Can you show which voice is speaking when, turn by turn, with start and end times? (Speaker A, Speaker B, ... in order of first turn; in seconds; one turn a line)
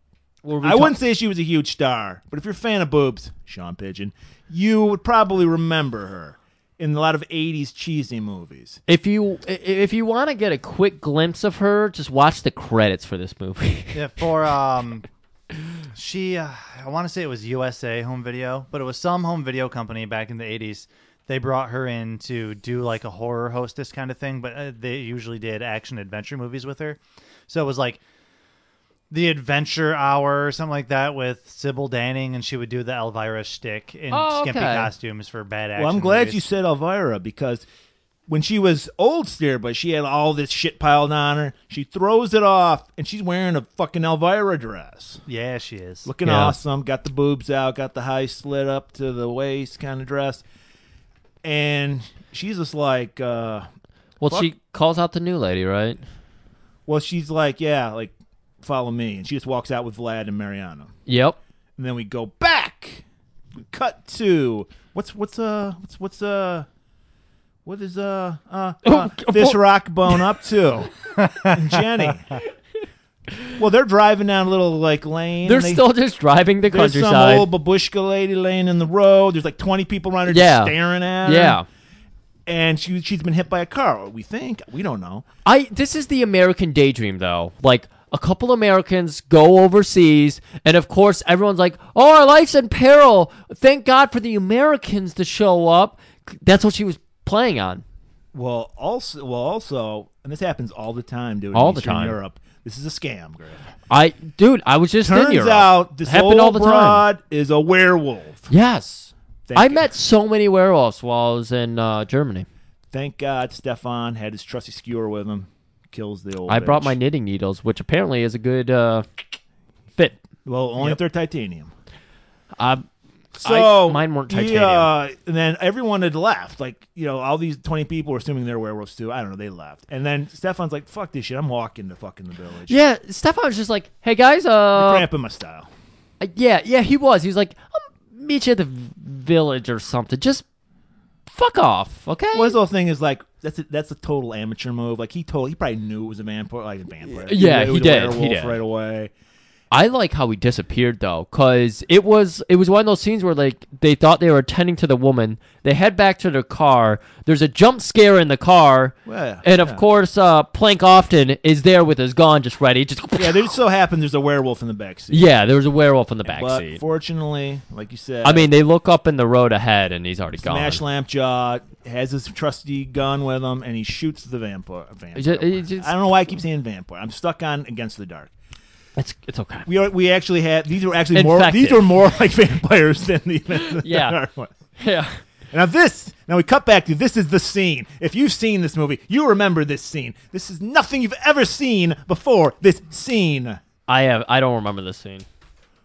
Speaker A: 0.4-1.0
Speaker B: 0.6-8.8
Speaker A: 8.9-14.0
Speaker C: 13.9-15.1
Speaker C: 15.9-28.0
Speaker C: 29.1-36.4
Speaker A: 34.1-34.9
Speaker B: 35.8-37.7
Speaker B: 38.3-45.2
Speaker C: 45.3-46.1
Speaker B: 46.0-50.4
Speaker A: 46.2-46.5
Speaker B: 51.4-53.7
Speaker A: 54.2-56.0
Speaker B: 54.2-54.5
Speaker B: 56.9-60.9
Speaker A: 61.1-61.4
Speaker B: 61.8-63.0
Speaker B: 63.6-66.7
Speaker B: 67.6-72.4
Speaker A: 68.8-70.2
Speaker C: 71.2-71.8
Speaker B: 73.5-75.8
Speaker A: 75.4-77.5
Speaker B: 76.7-81.6
Speaker A: 80.3-81.7
Speaker B: 82.5-85.2
Speaker A: 85.4-97.8
Speaker B: 98.3-103.7
Speaker A: 101.5-102.2
Speaker A: 103.9-107.0
Speaker B: 105.0-108.5
Speaker A: 108.5-112.5
Speaker B: 109.5-109.8
Speaker B: 112.9-116.9
Speaker A: 116.5-119.1
Speaker B: 120.4-121.7
Speaker A: 122.6-122.9
Speaker B: 123.4-132.8
Speaker A: 123.4-124.9
Speaker A: 132.7-135.1
Speaker B: 134.7-135.7
Speaker A: 136.2-140.4
Speaker A: 141.3-142.6
Speaker B: 142.3-149.1
Speaker A: 147.1-148.6
Speaker A: 149.7-163.5
Speaker B: 159.0-159.8
Speaker B: 163.2-165.3
Speaker A: 165.1-166.8
Speaker B: 166.2-168.5
Speaker A: 168.2-170.8
Speaker B: 170.4-178.3
Speaker A: 175.1-175.9
Speaker A: 179.0-179.7
Speaker B: 179.7-184.5
Speaker A: 181.1-181.9
Speaker A: 183.7-184.2
Speaker A: 184.8-185.2
Speaker B: 185.5-193.6
Speaker A: 193.9-195.2